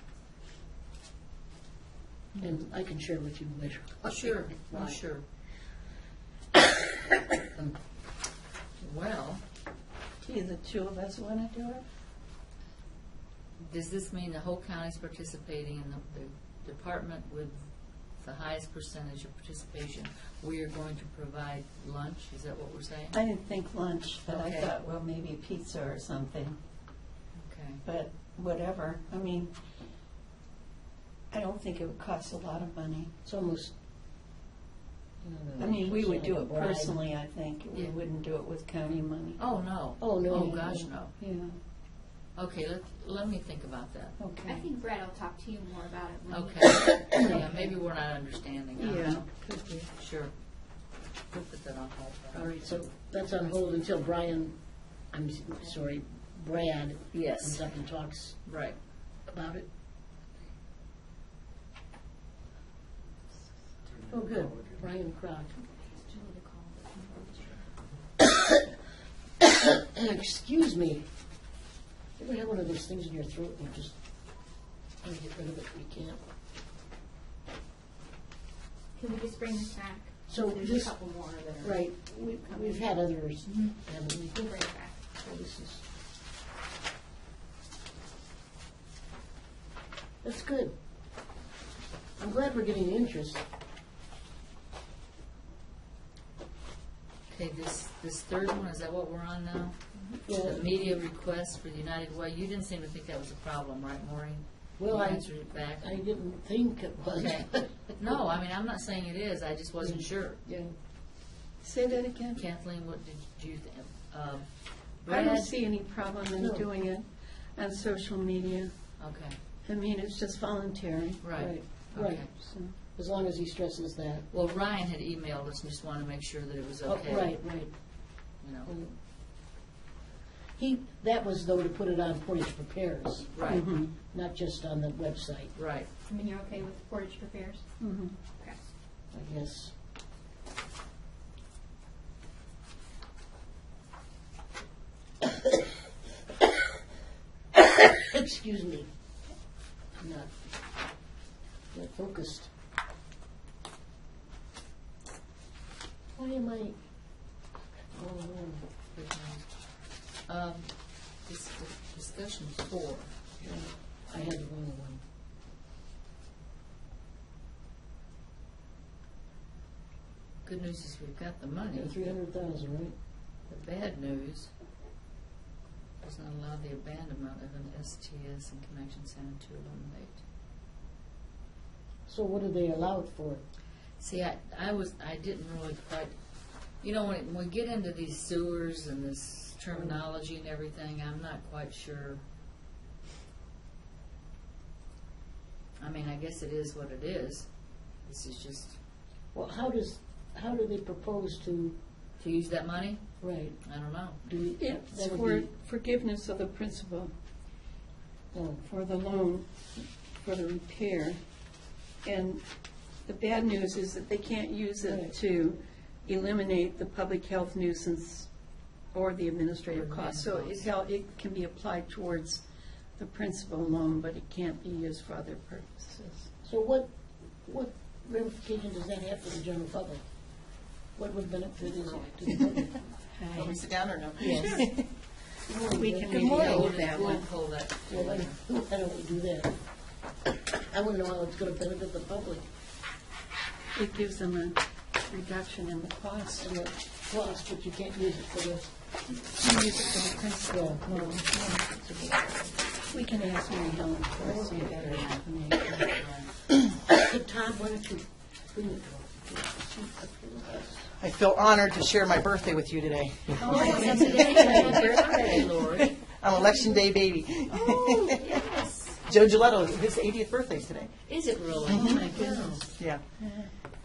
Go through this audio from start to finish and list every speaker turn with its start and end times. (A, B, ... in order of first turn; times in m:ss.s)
0:02.4-0:05.0 A
0:04.0-0:05.2 B
0:08.8-0:09.4 B
0:10.2-0:11.8 C
0:13.6-0:17.6 B
0:18.2-0:23.2 B
0:23.1-0:26.6 C
0:24.3-0:24.7 B
0:27.4-0:27.8 B
0:27.8-0:29.6 C
0:31.3-0:33.1 C
0:33.2-0:33.7 A
0:35.2-0:37.0 A
0:35.6-0:39.4 C
0:39.4-0:41.1 B
0:40.0-0:40.9 A
0:40.3-0:41.6 C
0:42.4-0:44.2 B
0:44.2-0:44.7 C
0:44.4-0:47.2 D
0:46.3-0:49.3 B
0:47.2-0:47.6 C
0:48.8-0:49.9 C
0:49.9-0:50.3 B
0:51.3-0:52.8 B
0:52.3-0:54.6 A
0:55.1-0:58.4 A
0:57.1-0:57.7 B
0:58.4-0:58.8 B
0:59.3-0:59.7 A
1:04.0-1:05.5 A
1:05.8-1:07.6 D
1:08.2-1:08.6 A
1:09.4-1:11.0 A
1:12.2-1:14.0 A
1:15.0-1:16.2 A
1:19.0-1:21.8 D
1:20.3-1:21.0 A
1:21.6-1:24.6 A
1:24.4-1:24.9 D
1:25.2-1:25.8 A
1:30.2-1:30.8 A
1:32.2-1:33.4 A
1:37.3-1:39.8 B
1:40.3-1:40.8 A
1:40.3-1:46.0 B
1:44.8-1:47.7 A
1:47.1-1:50.4 B
1:49.8-1:50.7 A
1:51.6-1:52.4 C
1:52.4-1:55.5 B
1:55.1-1:58.8 C
1:56.4-1:56.7 A
1:59.0-1:59.4 B
1:59.6-2:01.6 C
2:01.2-2:02.3 B
2:01.4-2:04.3 A
2:02.4-2:02.7 C
2:04.3-2:07.4 B
2:06.8-2:07.7 A
2:08.4-2:08.7 B
2:08.7-2:08.9 A
2:10.6-2:13.5 A
2:13.3-2:13.7 B
2:13.4-2:13.9 C
2:14.1-2:15.5 A
2:15.6-2:15.9 B
2:16.1-2:17.6 D
2:17.8-2:18.2 C
2:18.3-2:18.6 D
2:19.1-2:19.7 A
2:27.6-2:28.9 A
2:30.0-2:30.3 A
2:31.7-2:32.5 A
2:36.2-2:36.8 A
2:37.9-2:38.6 A
2:38.9-2:43.1 B
2:43.4-2:45.0 A
2:50.4-2:52.2 B
2:51.7-2:53.0 A
2:53.5-2:54.5 B
2:56.0-3:00.2 B
3:02.1-3:03.4 A
3:04.0-3:06.1 B
3:06.8-3:12.2 B
3:15.8-3:17.5 B
3:18.0-3:18.8 B
3:19.3-3:21.8 A
3:22.2-3:23.0 B
3:23.2-3:23.6 A
3:23.6-3:24.3 B
3:24.2-3:25.5 A
3:24.6-3:27.1 C
3:28.3-3:28.6 A
3:28.6-3:31.2 C
3:32.0-3:32.4 C
3:33.0-3:38.3 C
3:34.8-3:35.1 A
3:38.9-3:42.4 C
3:39.7-3:40.7 B
3:43.0-3:46.3 C
3:46.4-3:46.9 A
3:47.4-3:50.0 A
3:51.0-3:52.8 A
3:53.1-3:53.6 C
3:53.3-3:54.8 E
3:54.2-3:54.7 C
3:54.2-3:54.8 A
3:55.5-3:56.8 A
3:55.7-3:57.3 C
3:56.1-3:56.7 E
3:56.3-3:58.4 B
3:57.9-3:59.6 A
4:00.5-4:02.5 A
4:03.8-4:06.5 C
4:06.4-4:08.7 A
4:09.3-4:11.6 C
4:10.5-4:12.6 A
4:12.9-4:15.7 C
4:14.2-4:15.0 A
4:14.8-4:16.3 B
4:16.9-4:20.9 A
4:21.0-4:28.2 E
4:23.4-4:26.0 B
4:23.4-4:25.2 A
4:23.5-4:25.0 C
4:28.0-4:29.0 B
4:29.1-4:30.9 E
4:31.1-4:32.1 B
4:31.7-4:32.7 C
4:31.9-4:32.7 A
4:32.8-4:33.0 E